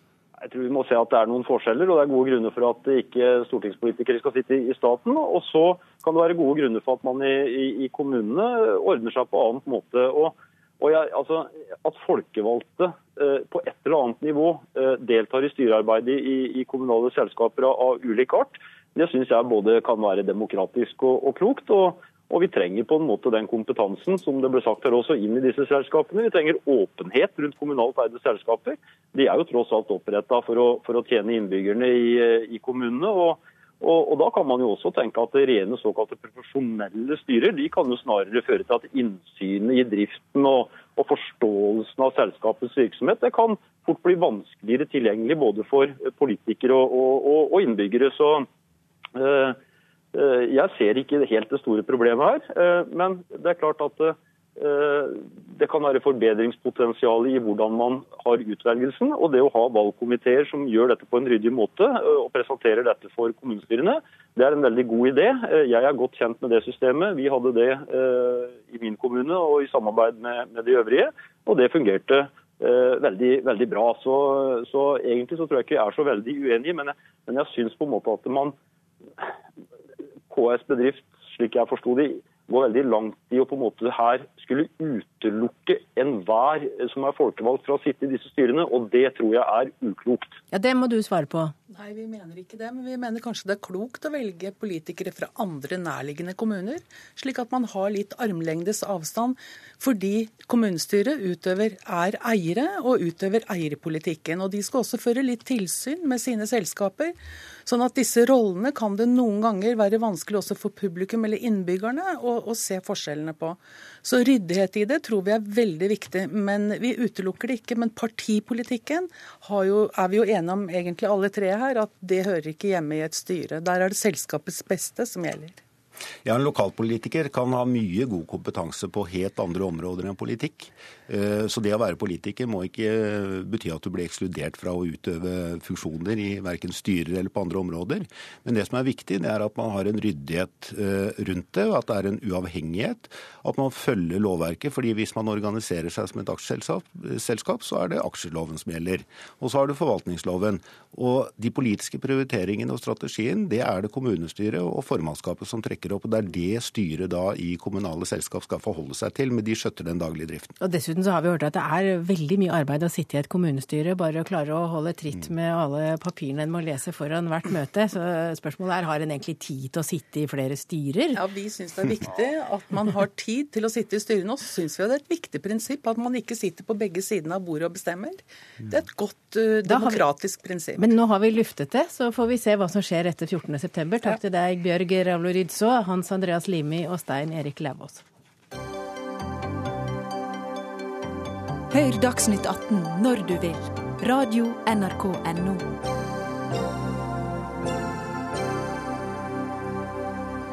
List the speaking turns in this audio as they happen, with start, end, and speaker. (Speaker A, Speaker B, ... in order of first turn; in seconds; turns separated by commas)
Speaker A: 0.4-48.5, Speaker A: 49.1-49.6, Speaker A: 50.1-78.5, Speaker A: 80.3-90.4, Speaker B: 90.5-91.5, Speaker C: 91.7-125.6, Speaker D: 126.2-160.5, Speaker B: 160.6-171.2, Speaker C: 171.1-180.8, Speaker B: 179.6-180.0, Speaker B: 180.8-188.0, Speaker E: 191.7-195.7